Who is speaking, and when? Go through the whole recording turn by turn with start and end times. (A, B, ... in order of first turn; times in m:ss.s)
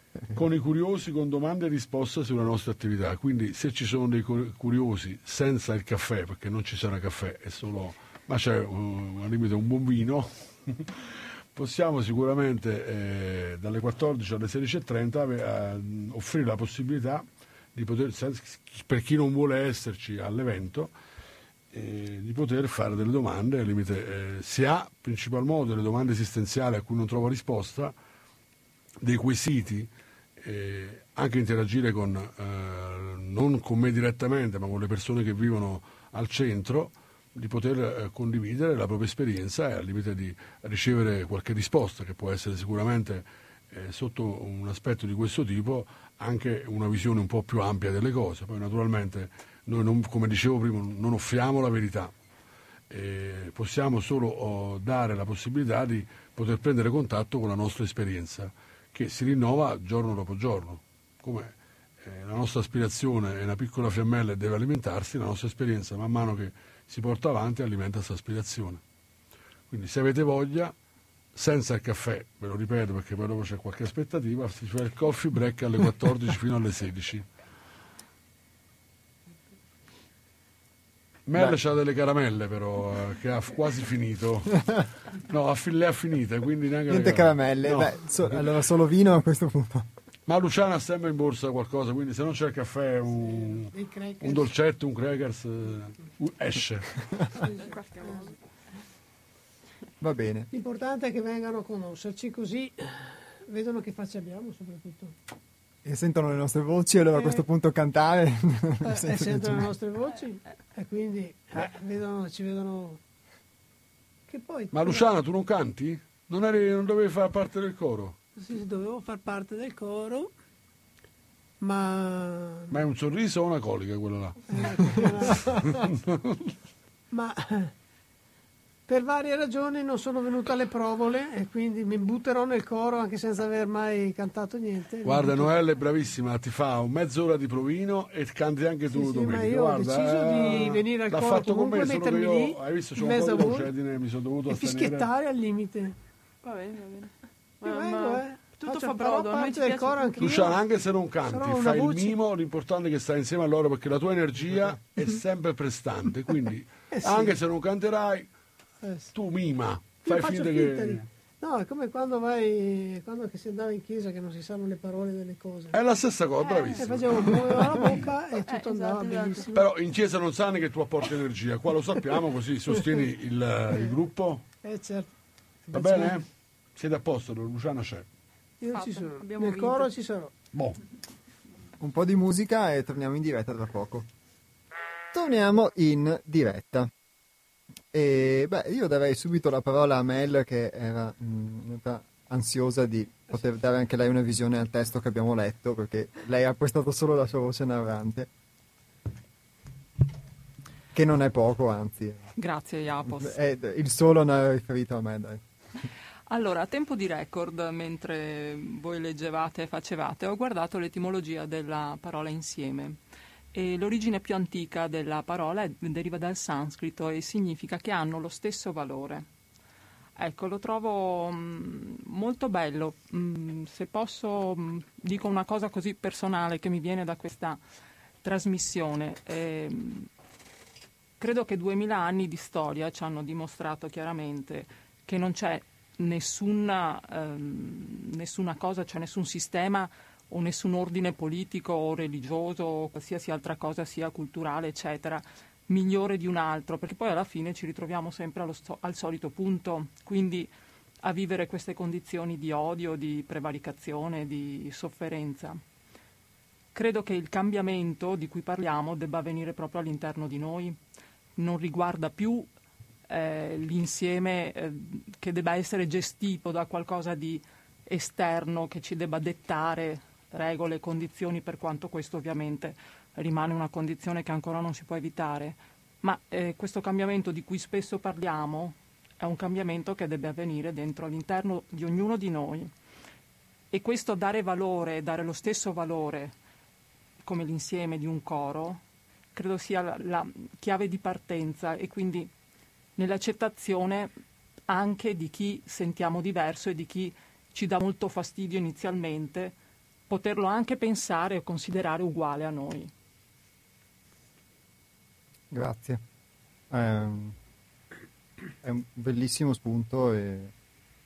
0:00.3-0:20.9 A
0:21.7-0:27.9 A
0:29.0-0:52.1 A
0:52.9-1:08.8 A
1:09.7-1:10.7 A
1:11.3-1:17.2 A
1:21.2-1:28.5 A
1:26.9-1:29.9 B
1:30.3-1:37.0 A
1:33.1-1:34.5 C
1:37.4-1:38.3 C
1:37.5-1:38.3 D
1:40.0-1:40.5 B
1:40.5-1:45.2 C
1:45.8-1:49.7 B
1:48.8-1:53.0 C
1:54.3-1:55.1 C
1:54.7-1:58.2 A
1:58.4-2:00.3 C
2:01.6-2:02.8 C
2:02.7-2:06.5 A
2:04.5-2:05.9 C
2:07.1-2:07.7 C
2:08.9-2:15.5 C
2:15.0-2:25.1 A
2:18.9-2:23.7 C
2:24.5-2:26.0 C
2:26.4-2:30.2 D
2:27.6-2:30.6 C
2:30.2-2:38.3 A
2:31.3-2:32.2 C
2:36.9-2:37.4 C
2:38.8-2:39.1 C
2:39.1-2:41.1 A
2:40.0-2:45.8 C
2:45.7-2:47.9 A
2:46.4-2:46.9 D
2:46.8-2:49.7 C
2:48.4-2:49.4 D
2:49.5-2:54.4 A
2:54.6-2:55.1 C
2:55.7-2:56.2 C
2:55.7-2:58.0 A
2:58.6-3:00.3 C
2:58.7-2:59.9 D
3:00.5-3:00.8 A
3:01.8-3:04.1 B
3:05.1-3:06.9 B
3:07.9-3:18.3 B
3:20.9-3:22.3 B
3:22.4-3:23.4 E
3:23.1-3:25.4 B
3:26.3-3:33.0 E
3:33.5-3:39.3 E
3:40.2-3:47.6 E
3:48.2-3:50.1 E
3:51.2-4:15.6 E
4:16.7-4:20.8 E
4:21.4-4:22.5 E
4:23.1-4:42.7 E
4:43.7-4:46.4 E
4:47.2-4:48.8 E
4:49.3-4:52.3 E
4:53.0-4:54.1 E
4:54.7-4:59.6 E
5:00.1-5:02.9 E
5:05.5-5:06.0 B
5:06.7-5:07.4 B
5:08.6-5:10.5 B